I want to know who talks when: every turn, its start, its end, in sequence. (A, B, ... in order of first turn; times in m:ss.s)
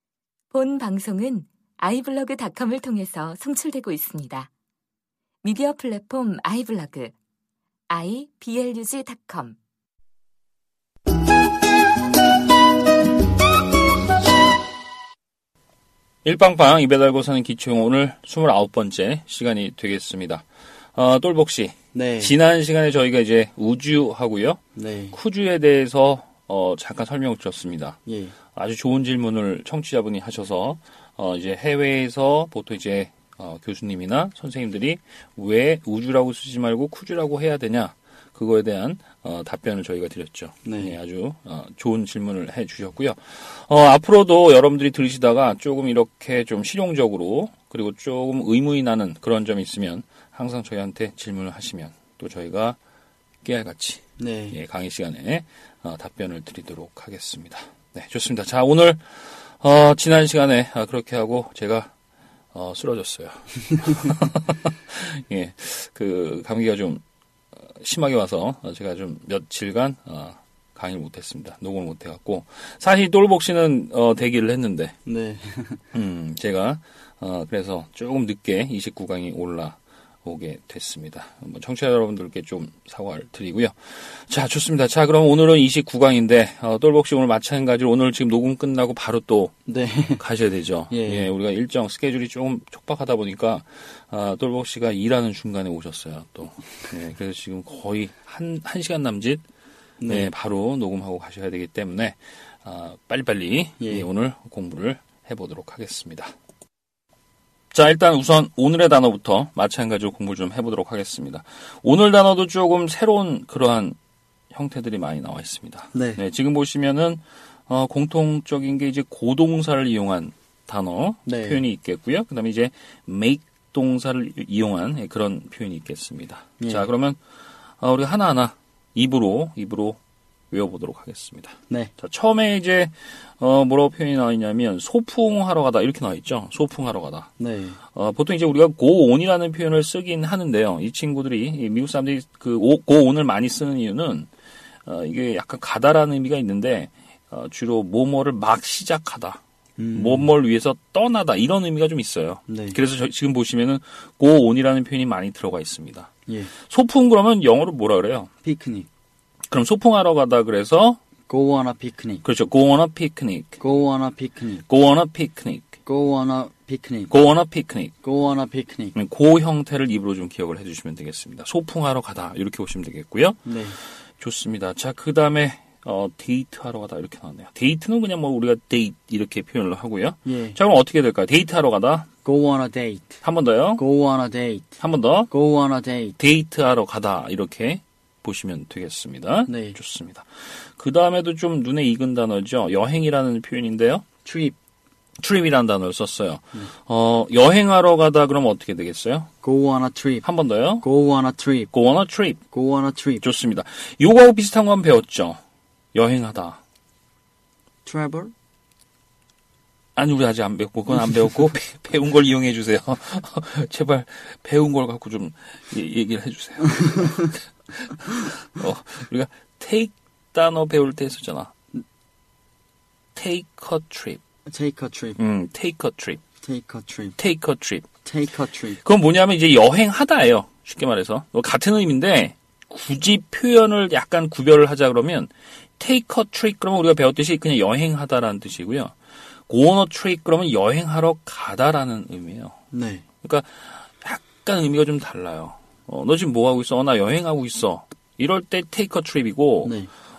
0:00.5-0:04.5 A
0:05.4-0:07.1 A
0:07.9-0:09.6 A
0:16.2-0:24.6 B
0:21.9-0:22.3 C
0:24.7-0:25.2 C
0:25.1-0:28.0 B
0:28.0-0:28.4 C
0:28.5-0:52.8 B
0:40.6-0:41.0 C
0:53.4-1:01.9 B
0:54.2-0:54.6 C
1:02.5-1:07.0 B
1:07.6-1:15.0 B
1:15.0-1:15.8 C
1:15.9-1:29.5 B
1:29.6-1:30.2 C
1:30.2-1:39.4 B
1:30.9-1:31.3 C
1:40.0-1:40.3 C
1:40.0-1:46.3 B
1:43.8-1:44.1 C
1:47.7-1:54.0 B
1:54.5-2:07.2 B
1:55.9-1:56.2 C
2:01.2-2:01.6 C
2:06.6-2:06.9 C
2:07.8-2:10.0 B
2:10.5-2:17.3 B
2:17.4-2:17.8 C
2:17.9-2:24.3 B
2:24.8-2:29.4 B
2:29.8-2:30.3 C
2:29.9-2:38.3 B
2:32.5-2:32.8 C
2:36.3-2:36.5 C
2:38.4-2:38.9 C
2:39.5-2:41.0 B
2:41.3-2:42.2 C
2:42.2-2:43.6 B
2:43.6-2:44.6 C
2:44.7-2:45.7 B
2:45.8-2:47.1 C
2:47.1-2:47.9 B
2:48.0-2:48.9 C
2:48.9-2:53.5 B
2:53.4-2:53.8 C
2:54.2-3:02.1 B
3:00.2-3:00.6 C
3:02.2-3:03.2 C
3:03.2-3:03.8 B
3:03.8-3:04.8 C
3:04.8-3:05.3 B
3:05.3-3:06.2 C
3:06.2-3:14.0 B
3:09.5-3:09.8 C
3:14.2-3:14.6 C
3:15.2-3:19.3 B
3:19.4-3:20.3 C
3:20.2-3:20.8 B
3:20.8-3:21.7 C
3:21.7-3:22.4 B
3:22.5-3:23.2 C
3:23.2-3:25.4 B
3:25.9-3:26.6 B
3:27.8-3:28.3 C
3:30.0-3:41.5 B
3:36.7-3:37.3 C
3:43.1-3:44.2 B
3:44.4-3:45.2 C
3:45.2-3:46.2 B
3:46.4-3:47.2 C
3:47.2-3:47.9 B
3:48.0-3:48.8 C
3:48.8-3:58.9 B
3:59.5-4:02.6 B
4:02.7-4:03.0 C
4:03.2-4:09.7 B
4:09.6-4:09.9 C